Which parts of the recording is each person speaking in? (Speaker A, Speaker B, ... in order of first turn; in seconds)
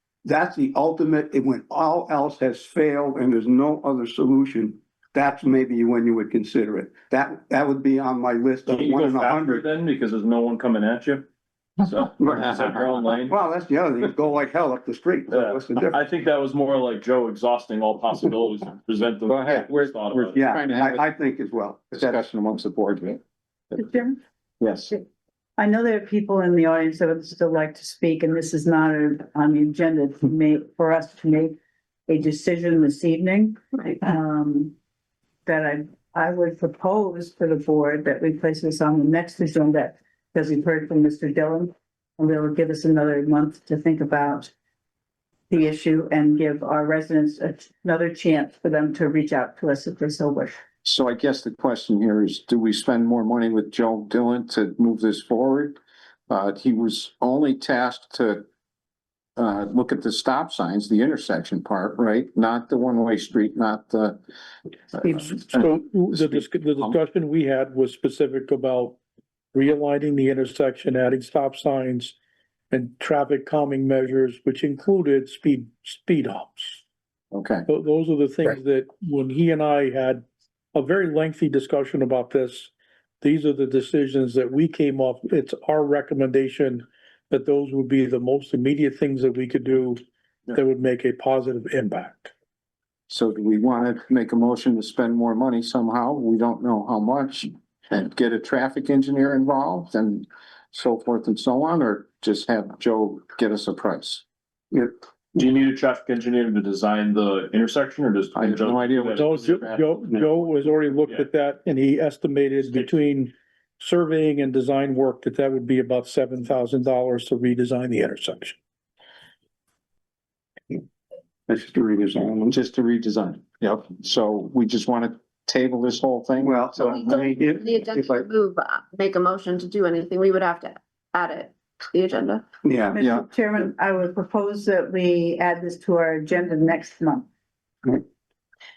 Speaker A: 0.2-9.7, 12.2-12.7, 13.3-16.0, 20.3-22.3, 121.5-122.6, 126.4-128.2, 132.6-133.2
Speaker B: 8.7-11.3, 11.8-13.4, 15.3-20.4, 105.3-109.5, 112.7-113.0
Speaker C: 12.4-12.8, 19.3-21.1, 21.9-23.2, 24.6-24.9, 50.8-55.8, 56.3-58.4, 59.4-64.2, 66.1-67.0, 77.3-77.7, 93.1-104.2, 108.3-110.4, 122.5-127.1
Speaker D: 23.8-24.2, 25.6-34.7, 35.5-44.5, 45.5-50.6, 132.9-137.3
Speaker E: 65.1-69.0, 69.5-72.2, 72.7-76.8, 77.7-92.3, 109.2-118.6
Speaker F: 126.8-132.5